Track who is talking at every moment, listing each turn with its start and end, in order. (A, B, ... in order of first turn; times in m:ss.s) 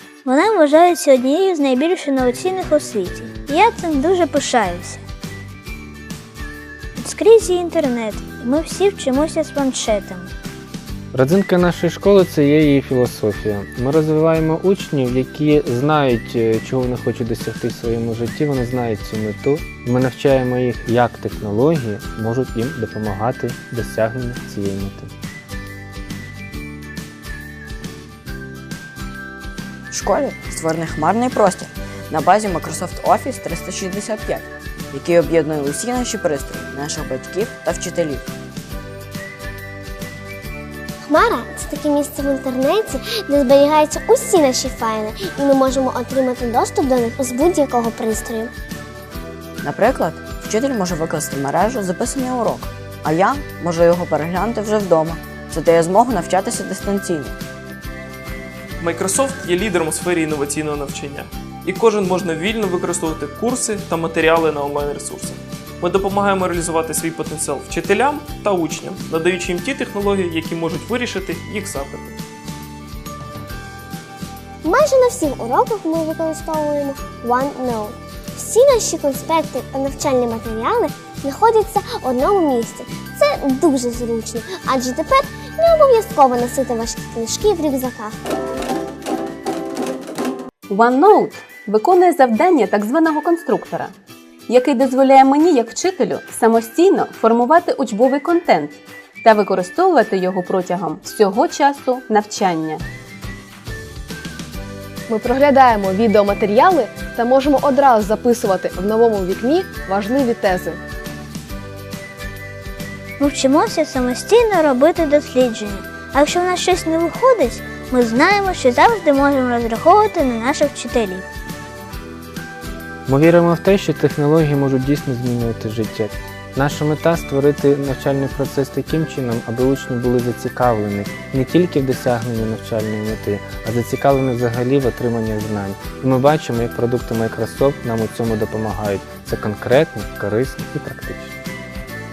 0:00.2-0:05.0 A
0:07.0-0:10.3 A
0:11.1-0:25.1 B
0:29.9-0:38.3 C
0:41.0-0:48.5 D
0:49.6-0:57.4 C
0:58.8-1:12.2 E
1:14.6-1:28.2 D
1:30.7-1:33.9 F
1:34.5-1:42.8 F
1:45.1-1:50.8 G
1:53.2-2:01.3 A
2:03.1-2:21.4 B